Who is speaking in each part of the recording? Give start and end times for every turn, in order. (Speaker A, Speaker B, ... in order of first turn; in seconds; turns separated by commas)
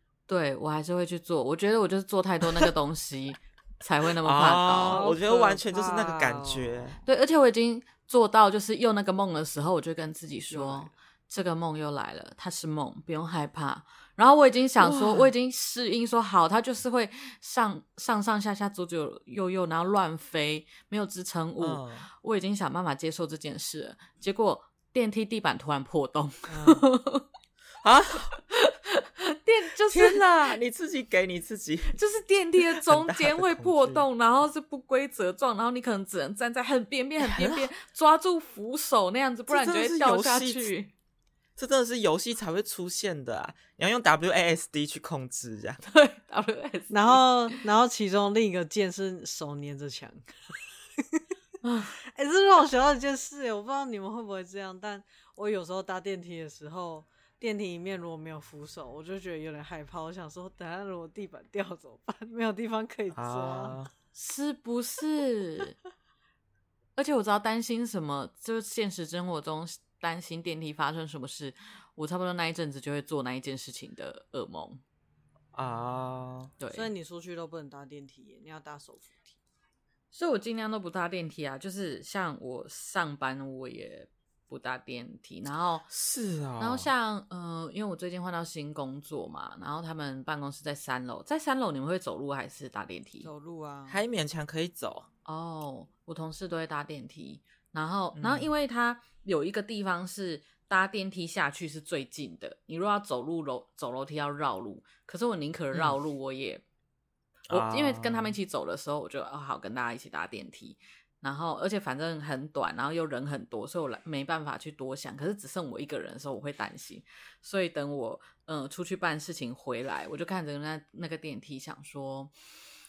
Speaker A: 0.3-5.0, Speaker B: 4.2-7.0, Speaker C: 4.7-6.9, Speaker A: 7.0-27.3, Speaker C: 10.5-10.9, Speaker B: 14.8-15.3, Speaker B: 21.6-22.1, Speaker C: 26.5-26.9, Speaker B: 27.8-28.4, Speaker A: 28.4-30.6, Speaker B: 29.9-32.0, Speaker A: 31.9-40.9, Speaker B: 32.7-34.1, Speaker B: 37.2-37.7, Speaker B: 39.5-40.7, Speaker B: 41.6-45.8, Speaker A: 45.8-47.6, Speaker C: 46.9-51.2, Speaker A: 51.6-52.0, Speaker C: 51.9-63.8, Speaker B: 63.1-63.9, Speaker A: 64.1-65.8, Speaker A: 67.0-74.8, Speaker B: 75.5-76.5, Speaker A: 76.6-76.9, Speaker C: 76.7-79.4, Speaker A: 80.1-85.9, Speaker B: 85.9-86.9, Speaker A: 86.6-93.3, Speaker C: 93.2-94.0, Speaker B: 93.9-95.1, Speaker A: 95.2-106.6, Speaker B: 98.2-98.5, Speaker B: 105.7-106.0, Speaker B: 107.5-108.4, Speaker A: 107.5-122.3